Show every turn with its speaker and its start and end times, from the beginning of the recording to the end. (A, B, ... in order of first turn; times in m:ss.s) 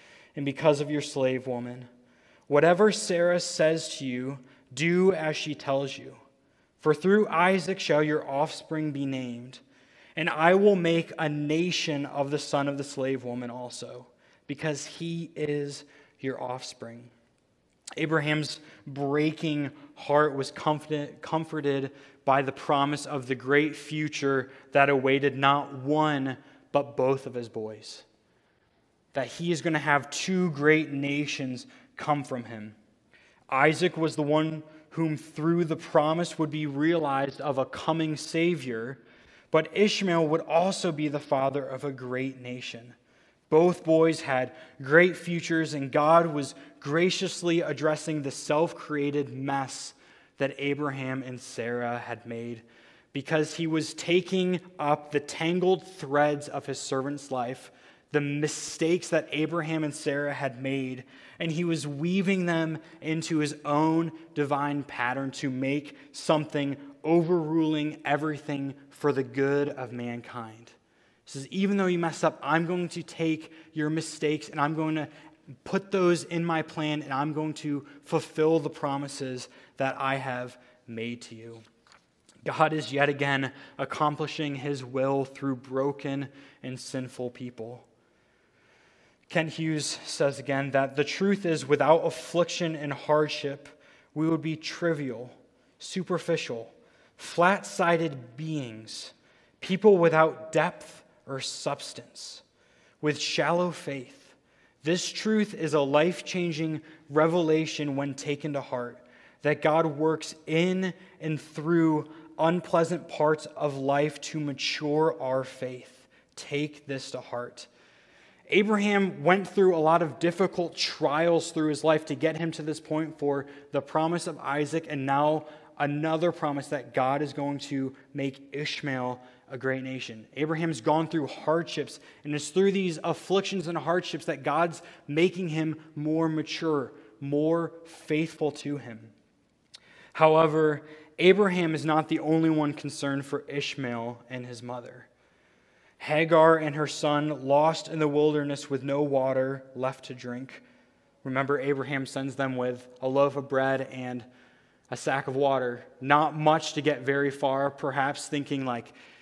0:00.4-0:01.9 A
0:02.5-0:06.2 A
0:06.8-0:09.6 A
0:10.2-0:17.1 A
0:18.0-0:28.0 A
0:29.1-0:32.8 A
0:33.5-0:43.0 A
0:43.5-1:10.7 A
1:11.3-1:15.1 A
1:15.6-1:21.6 A
1:22.4-1:27.8 A
1:29.3-1:42.4 A
1:43.0-1:57.7 A
1:58.5-2:19.1 A
2:20.1-2:25.1 A
2:26.0-2:30.6 A
2:31.2-2:34.2 A
2:34.9-2:38.9 A